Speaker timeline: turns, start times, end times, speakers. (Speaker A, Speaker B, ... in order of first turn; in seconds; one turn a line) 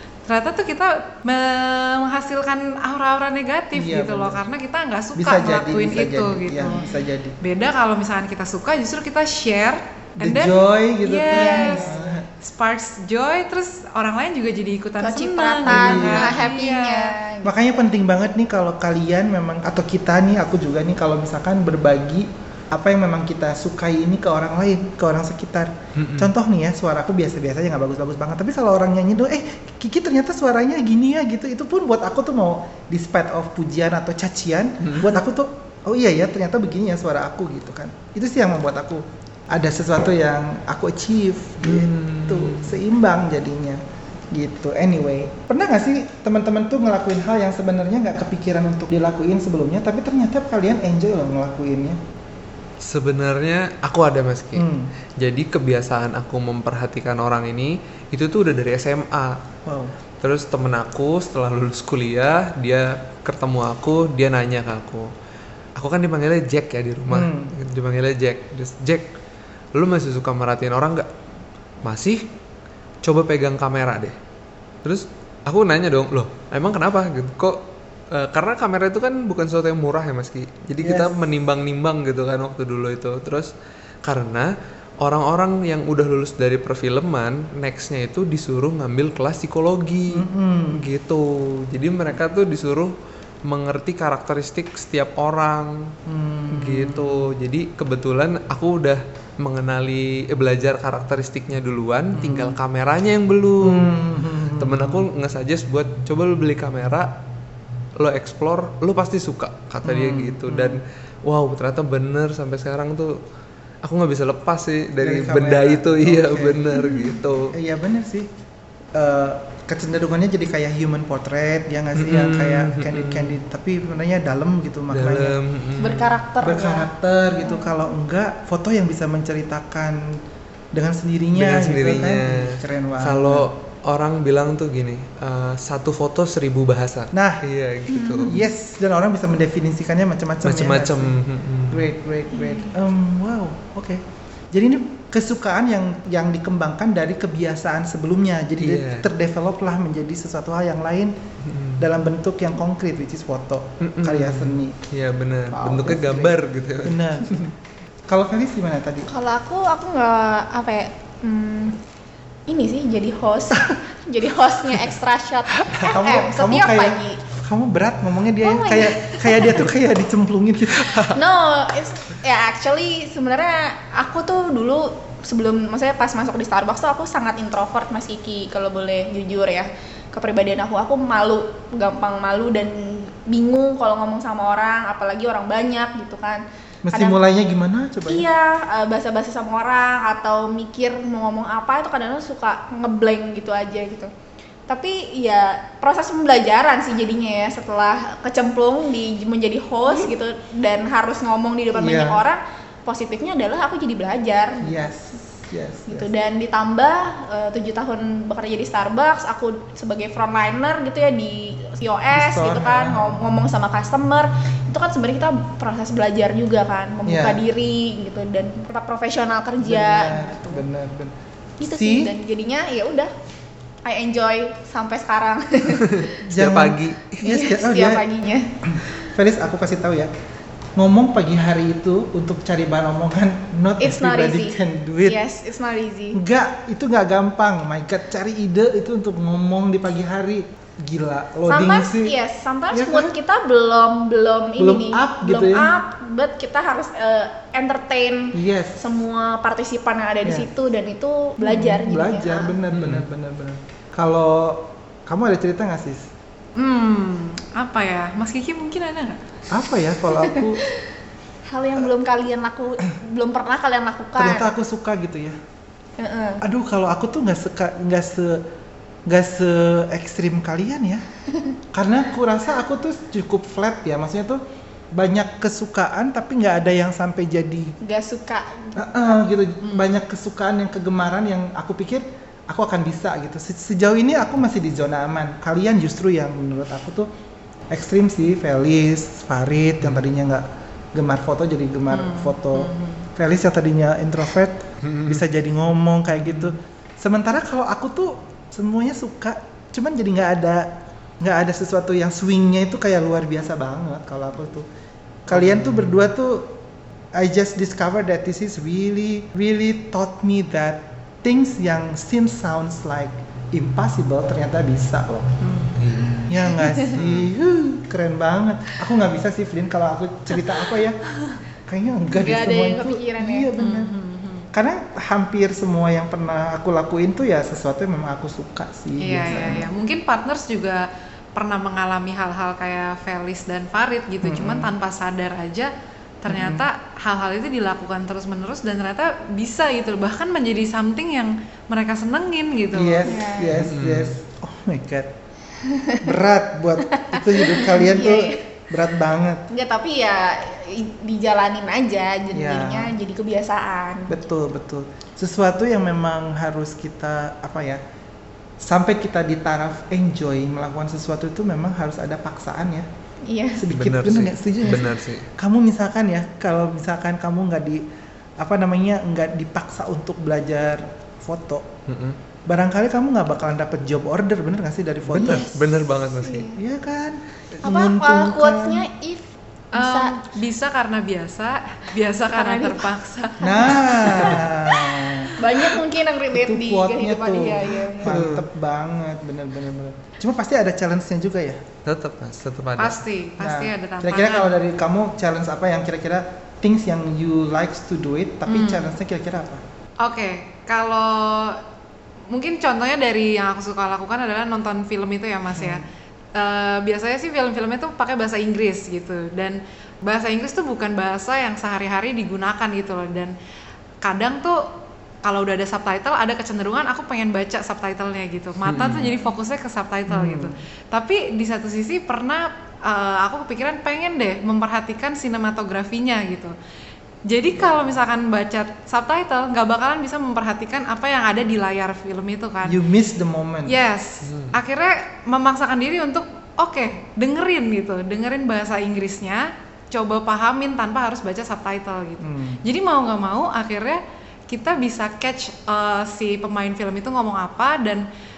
Speaker A: 0.2-6.8
Speaker B: 3.7-4.4
Speaker B: 5.2-7.4
Speaker A: 7.4-17.1
Speaker B: 10.2-12.3
Speaker C: 11.3-12.0
Speaker C: 15.0-17.7
Speaker B: 15.7-16.4
Speaker B: 17.4-52.0
Speaker D: 25.9-26.3
Speaker D: 34.8-35.2
Speaker D: 41.6-42.8
Speaker D: 52.8-54.7
Speaker B: 54.5-54.9
Speaker D: 55.2-59.4
Speaker B: 59.6-59.9
Speaker D: 60.2-65.1
Speaker D: 65.8-69.1
Speaker B: 67.1-67.5
Speaker D: 69.7-71.1
Speaker D: 71.8-72.2
Speaker D: 73.0-74.2
Speaker D: 74.8-83.5
Speaker B: 80.8-81.2
Speaker D: 84.0-92.9
Speaker B: 90.1-90.8
Speaker D: 93.5-95.9
Speaker B: 96.0-97.3
Speaker D: 96.5-104.0
Speaker B: 102.1-102.6
Speaker B: 103.6-105.1
Speaker D: 104.6-107.1
Speaker D: 108.0-113.2
Speaker B: 109.8-110.8
Speaker D: 113.8-117.5
Speaker B: 115.0-116.8
Speaker B: 117.5-118.3
Speaker B: 118.9-125.4
Speaker D: 121.9-123.4
Speaker D: 124.9-126.1
Speaker C: 125.8-126.9
Speaker B: 126.4-130.2
Speaker B: 130.7-133.5
Speaker D: 131.3-138.4
Speaker B: 137.1-137.4
Speaker C: 137.9-138.4
Speaker B: 138.2-151.1
Speaker D: 140.4-141.9
Speaker C: 142.3-142.7
Speaker D: 148.6-149.1
Speaker D: 151.4-151.8
Speaker B: 151.8-154.8
Speaker D: 153.8-157.4
Speaker B: 155.5-157.5
Speaker B: 158.1-159.1
Speaker C: 159.1-161.8
Speaker C: 162.5-167.2
Speaker B: 165.6-171.2
Speaker C: 168.4-169.6
Speaker C: 171.1-187.2
Speaker B: 186.8-188.3
Speaker C: 188.1-194.1
Speaker C: 194.7-204.7
Speaker B: 201.7-202.2
Speaker B: 204.6-206.1
Speaker C: 205.9-220.6
Speaker B: 212.1-213.2
Speaker B: 217.1-217.4
Speaker B: 219.6-221.1
Speaker C: 221.6-223.1
Speaker B: 221.7-222.1
Speaker C: 223.8-226.2
Speaker D: 225.9-227.2
Speaker B: 226.3-228.0
Speaker C: 227.2-228.5
Speaker B: 228.6-230.1
Speaker B: 230.8-235.2
Speaker C: 233.8-236.2
Speaker B: 236.1-242.1
Speaker C: 241.5-252.6
Speaker B: 242.7-243.1
Speaker B: 244.6-245.8
Speaker B: 248.3-248.8
Speaker B: 251.4-256.1
Speaker D: 252.7-253.1
Speaker A: 256.6-259.2
Speaker B: 259.5-260.6
Speaker C: 260.2-260.8
Speaker C: 261.5-264.5
Speaker B: 264.1-265.4
Speaker C: 266.0-266.4
Speaker B: 266.4-268.4
Speaker B: 269.1-271.0
Speaker B: 271.7-274.4
Speaker B: 274.9-277.8
Speaker C: 277.8-279.2
Speaker B: 278.8-287.1
Speaker A: 279.6-279.9
Speaker B: 287.7-304.7
Speaker A: 291.9-293.1
Speaker D: 294.8-295.2
Speaker D: 296.2-296.5
Speaker B: 305.2-306.5
Speaker D: 305.3-305.9
Speaker B: 307.1-315.4
Speaker A: 315.4-315.7
Speaker D: 315.8-316.4
Speaker B: 316.3-321.0
Speaker D: 316.9-317.3
Speaker B: 321.7-323.9
Speaker C: 322.1-323.5
Speaker A: 323.6-324.5
Speaker B: 324.5-329.7
Speaker A: 329.0-343.1
Speaker B: 334.2-334.7
Speaker B: 336.3-336.6
Speaker B: 342.7-345.1
Speaker C: 343.0-343.6
Speaker D: 343.5-344.1
Speaker C: 345.6-346.0
Speaker B: 346.0-349.4
Speaker C: 346.9-348.4
Speaker C: 349.5-354.2
Speaker B: 352.3-352.9
Speaker B: 354.1-357.8
Speaker B: 358.6-362.9
Speaker C: 363.2-363.6
Speaker B: 363.5-367.8
Speaker D: 363.7-365.3
Speaker B: 368.4-371.7
Speaker D: 371.9-372.2
Speaker B: 372.5-375.5
Speaker D: 375.1-376.5
Speaker C: 375.2-375.6
Speaker C: 376.2-376.6
Speaker B: 376.5-378.9
Speaker C: 377.6-380.2
Speaker A: 379.7-385.3
Speaker C: 382.3-382.9
Speaker B: 383.4-385.3
Speaker C: 385.4-388.1
Speaker B: 386.3-391.6
Speaker D: 388.0-388.4
Speaker D: 391.8-393.0
Speaker A: 392.8-394.6
Speaker B: 393.4-399.6
Speaker A: 398.5-398.9
Speaker A: 400.0-401.6
Speaker A: 402.3-405.9
Speaker B: 405.5-405.8
Speaker A: 406.4-413.3
Speaker A: 414.0-414.6
Speaker A: 415.2-426.5
Speaker D: 418.6-419.1
Speaker B: 420.1-420.5
Speaker A: 427.3-432.8
Speaker B: 432.6-433.8
Speaker A: 433.6-448.0
Speaker D: 434.2-434.6
Speaker B: 442.2-442.6